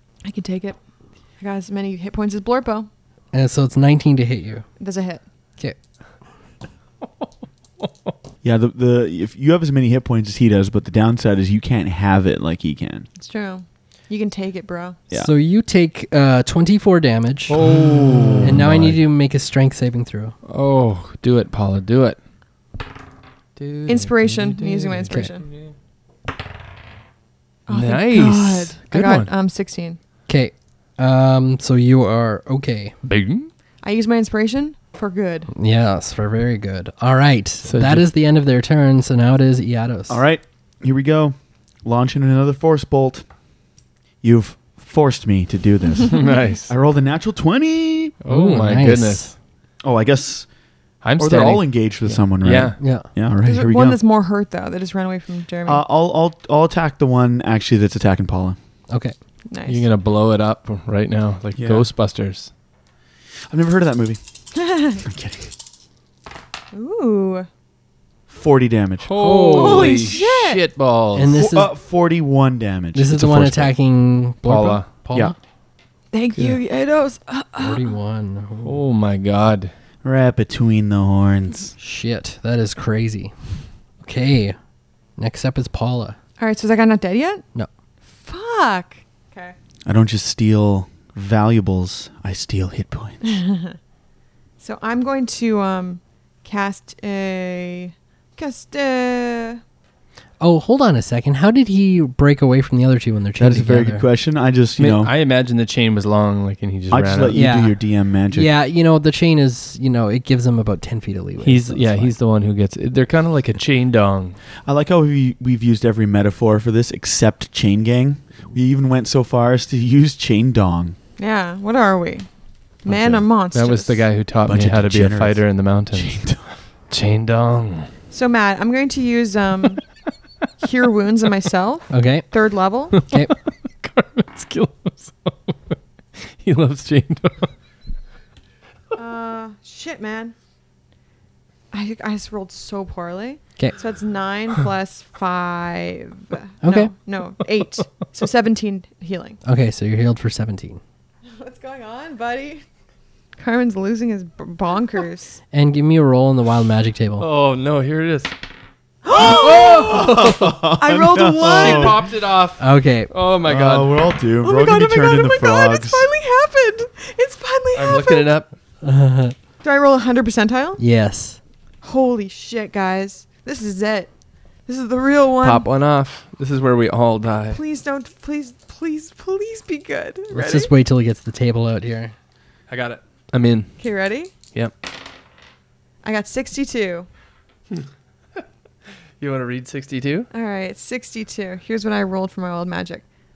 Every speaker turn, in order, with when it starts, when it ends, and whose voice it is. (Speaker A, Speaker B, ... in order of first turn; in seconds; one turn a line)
Speaker A: 0.2-0.8
Speaker A: 1.4-2.9
Speaker B: 3.3-4.7
Speaker A: 4.8-5.2
Speaker C: 8.4-13.1
Speaker A: 13.2-15.0
Speaker B: 15.1-20.4
Speaker D: 17.5-19.0
Speaker D: 20.5-22.2
Speaker D: 23.6-25.7
Speaker A: 23.9-25.5
Speaker A: 27.7-30.0
Speaker D: 27.7-29.3
Speaker B: 30.3-33.0
Speaker D: 33.0-33.5
Speaker A: 33.8-35.5
Speaker B: 35.5-40.2
Speaker D: 37.6-38.1
Speaker C: 40.1-43.2
Speaker C: 44.2-48.2
Speaker D: 46.1-46.7
Speaker D: 48.2-49.3
Speaker B: 48.3-49.3
Speaker C: 49.8-50.5
Speaker D: 51.0-52.8
Speaker C: 51.2-54.0
Speaker B: 52.8-53.1
Speaker A: 53.4-55.8
Speaker C: 55.7-58.6
Speaker B: 58.9-59.1
Speaker A: 59.5-59.9
Speaker D: 59.7-62.5
Speaker C: 61.6-61.9
Speaker C: 63.5-64.2
Speaker A: 64.5-65.0
Speaker C: 65.0-65.5
Speaker A: 66.7-67.5
Speaker C: 68.3-69.1
Speaker D: 69.0-71.5
Speaker B: 69.2-70.1
Speaker A: 69.4-70.7
Speaker B: 71.1-71.7
Speaker C: 71.4-73.7
Speaker B: 72.9-75.4
Speaker D: 74.4-74.9
Speaker A: 76.1-77.9
Speaker B: 77.6-78.8
Speaker D: 78.6-79.7
Speaker C: 80.0-81.8
Speaker B: 81.8-83.3
Speaker B: 84.0-84.6
Speaker B: 85.2-86.2
Speaker A: 86.4-87.4
Speaker A: 88.1-89.6
Speaker C: 89.9-93.4
Speaker A: 93.2-93.8
Speaker A: 94.6-99.6
Speaker B: 100.4-104.1
Speaker C: 103.4-105.1
Speaker D: 104.8-107.4
Speaker C: 106.9-108.5
Speaker B: 107.3-107.8
Speaker B: 108.3-112.2
Speaker D: 111.4-114.4
Speaker C: 114.7-121.0
Speaker A: 121.2-122.3
Speaker A: 122.8-124.1
Speaker C: 122.9-123.2
Speaker D: 123.5-126.3
Speaker C: 124.5-126.4
Speaker D: 126.9-127.9
Speaker A: 128.1-129.8
Speaker A: 130.6-133.0
Speaker B: 131.9-132.3
Speaker D: 133.0-137.5
Speaker A: 138.9-140.3
Speaker A: 141.7-149.4
Speaker B: 146.6-146.9
Speaker B: 149.4-150.8
Speaker A: 151.3-152.6
Speaker A: 153.4-155.4
Speaker B: 155.5-157.3
Speaker D: 157.2-158.3
Speaker A: 159.0-162.0
Speaker C: 159.2-162.1
Speaker D: 159.3-160.6
Speaker D: 161.4-164.1
Speaker B: 162.6-163.1
Speaker C: 163.4-166.1
Speaker A: 164.4-168.3
Speaker D: 167.8-168.5
Speaker B: 168.8-169.3
Speaker A: 169.6-170.8
Speaker B: 170.8-171.4
Speaker A: 171.8-174.1
Speaker A: 174.7-175.7
Speaker D: 175.4-177.6
Speaker A: 177.5-180.7
Speaker B: 180.3-182.2
Speaker D: 182.7-183.8
Speaker A: 183.8-184.3
Speaker A: 186.0-187.1
Speaker D: 189.2-190.3
Speaker A: 190.3-193.0